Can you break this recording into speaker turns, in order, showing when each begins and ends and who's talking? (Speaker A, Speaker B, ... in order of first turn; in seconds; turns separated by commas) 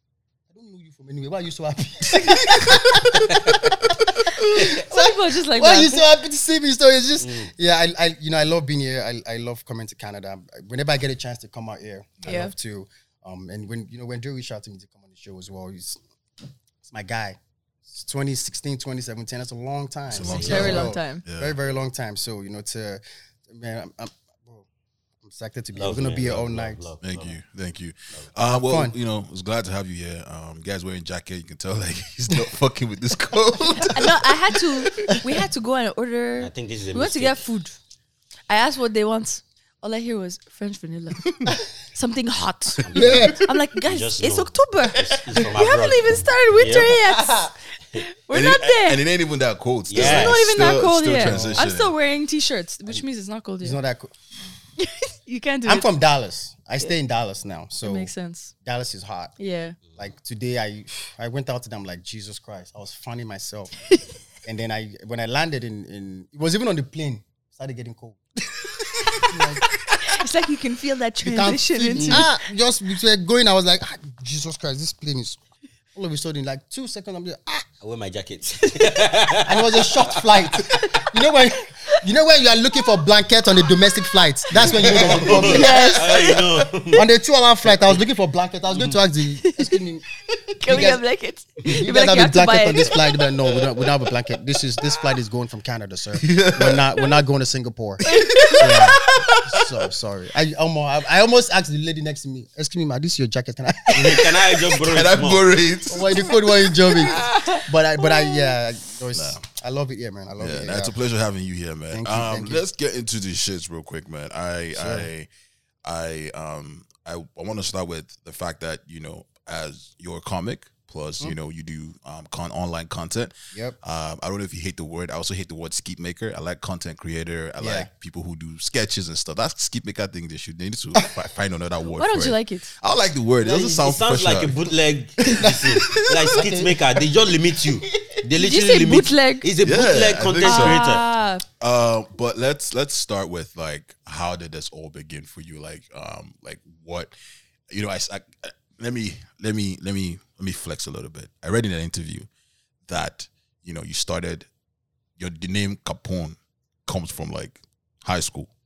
Speaker A: 0.5-16.0, Speaker B: 4.8-6.0, Speaker C: 7.2-7.5, Speaker B: 12.2-12.5, Speaker A: 16.8-24.6, Speaker D: 20.1-21.6, Speaker C: 20.2-20.9, Speaker B: 20.4-21.2, Speaker A: 25.2-26.9, Speaker C: 25.8-27.3, Speaker D: 27.0-34.2, Speaker A: 28.4-28.9, Speaker B: 33.9-37.8, Speaker D: 35.0-35.2, Speaker C: 36.4-37.4, Speaker B: 38.5-49.0, Speaker C: 42.8-47.0, Speaker A: 42.9-43.4, Speaker A: 47.1-47.5, Speaker D: 48.3-51.9, Speaker C: 49.9-50.4, Speaker B: 50.0-53.8, Speaker A: 51.2-51.6, Speaker A: 53.6-54.2, Speaker B: 54.8-55.9, Speaker A: 55.6-58.1, Speaker B: 57.8-58.5, Speaker A: 58.6-59.3, Speaker B: 59.4-59.8, Speaker A: 60.0-63.8, Speaker A: 64.4-68.2, Speaker A: 69.2-69.7, Speaker B: 70.0-72.2, Speaker A: 71.2-75.4, Speaker A: 75.9-77.7, Speaker C: 77.8-80.1, Speaker A: 79.5-86.2, Speaker B: 80.8-81.1, Speaker C: 84.6-87.0, Speaker D: 84.6-86.6, Speaker B: 85.4-86.0, Speaker A: 86.9-90.0, Speaker C: 87.7-88.0, Speaker C: 88.7-89.0, Speaker B: 90.6-93.0, Speaker A: 90.6-91.0, Speaker A: 91.7-98.0, Speaker D: 96.1-96.9, Speaker B: 98.1-98.8, Speaker D: 98.4-98.8, Speaker A: 98.6-104.3, Speaker D: 103.8-104.2, Speaker C: 103.9-105.4, Speaker D: 104.7-106.2, Speaker A: 105.9-110.9, Speaker D: 109.1-109.4, Speaker D: 110.4-115.3, Speaker A: 111.9-112.6, Speaker A: 114.7-115.1, Speaker D: 115.8-134.6, Speaker A: 127.6-127.9, Speaker B: 131.9-132.7, Speaker C: 133.4-141.0, Speaker D: 135.2-136.4, Speaker A: 135.3-136.8, Speaker B: 138.4-139.5, Speaker D: 139.6-140.8, Speaker B: 140.4-141.4, Speaker D: 141.6-147.1, Speaker D: 147.7-152.3, Speaker D: 152.9-154.5, Speaker D: 155.2-158.5